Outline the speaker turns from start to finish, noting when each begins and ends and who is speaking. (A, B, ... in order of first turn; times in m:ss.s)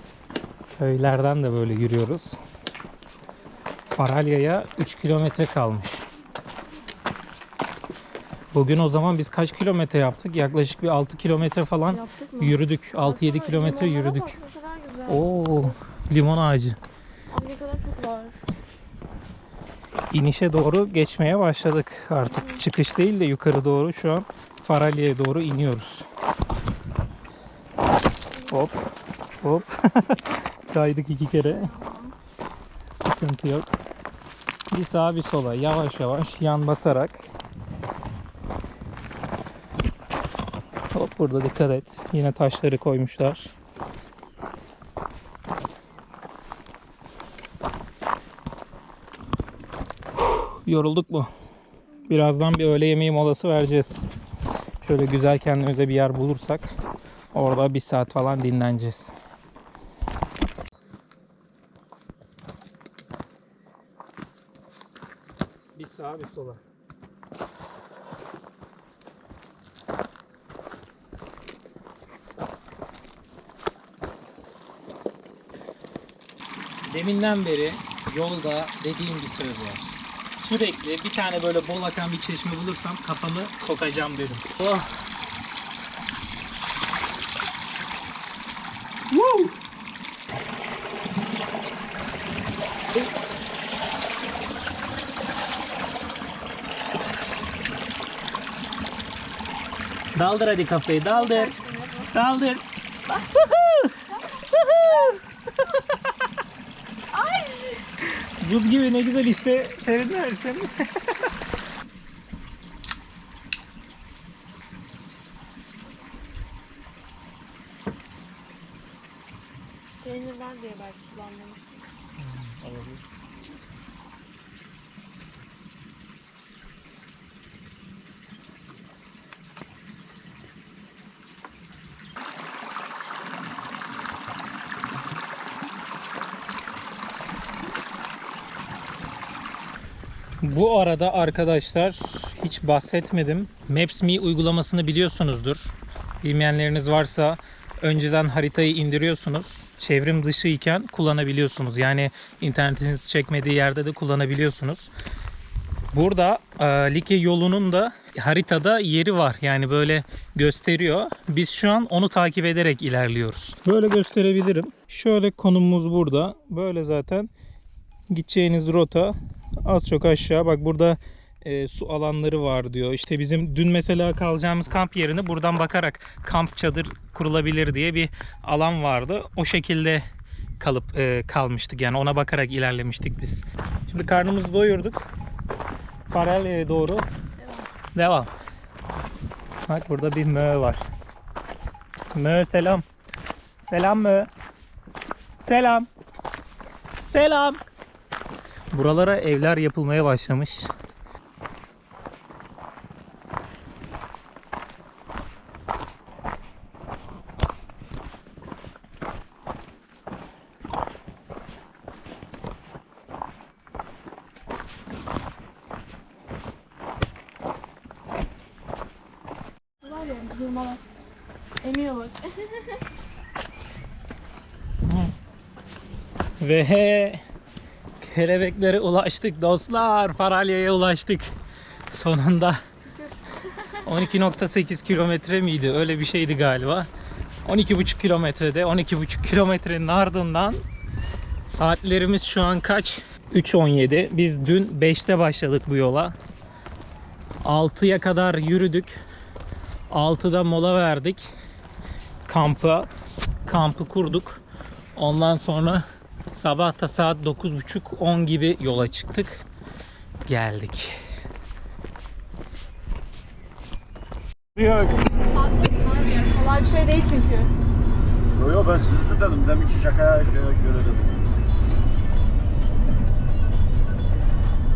0:00.7-0:02.4 A
0:04.0-0:06.0 A
0:08.5-0:14.4 A
0:11.9-0:15.5 B
0:15.1-0:16.8 A
0:17.3-0:18.4 B
0:20.1-0:26.1 A
0:22.3-0:22.6 B
0:28.5-0:31.8 A
0:31.6-0:32.2 B
0:33.0-0:33.7 A
0:34.7-0:37.2 A
0:40.9-0:43.5 A
0:50.2-0:51.3 A
0:52.1-0:54.1 A
0:54.8-0:56.8 A
0:57.3-0:59.2 A
1:05.8-1:06.6 A
1:16.8-1:24.9 A
1:29.1-1:29.6 A
1:40.2-1:41.6 A
1:41.1-1:42.1 B
1:42.1-1:45.2 A
1:47.2-1:47.8 B
1:48.0-1:51.1 A
2:00.0-2:01.9 B
2:02.2-2:03.0 A
2:20.4-2:34.9 A
2:35.9-2:47.3 A
2:48.1-3:00.0 A
3:00.6-3:05.1 A
3:06.1-3:07.1 A
3:07.9-3:08.3 A
3:09.7-3:10.8 A
3:12.1-3:12.8 A
3:13.6-3:14.3 A
3:15.4-3:15.9 A
3:17.0-3:17.6 A
3:18.7-3:20.7 A
3:39.8-3:40.8 B
3:41.6-3:42.8 B
3:44.9-3:45.1 A
3:46.4-3:47.2 A
3:48.0-3:51.3 A
3:51.9-3:52.6 A
3:52.8-3:53.2 B
3:53.8-3:56.9 A
3:57.4-4:00.6 A
4:01.5-4:06.2 A
4:07.4-4:09.0 A
4:09.9-4:11.3 A
4:12.3-4:12.9 A
4:13.4-4:14.4 A
4:15.0-4:19.4 A
4:20.3-4:21.0 A
4:25.1-4:27.5 B
4:28.5-4:31.0 C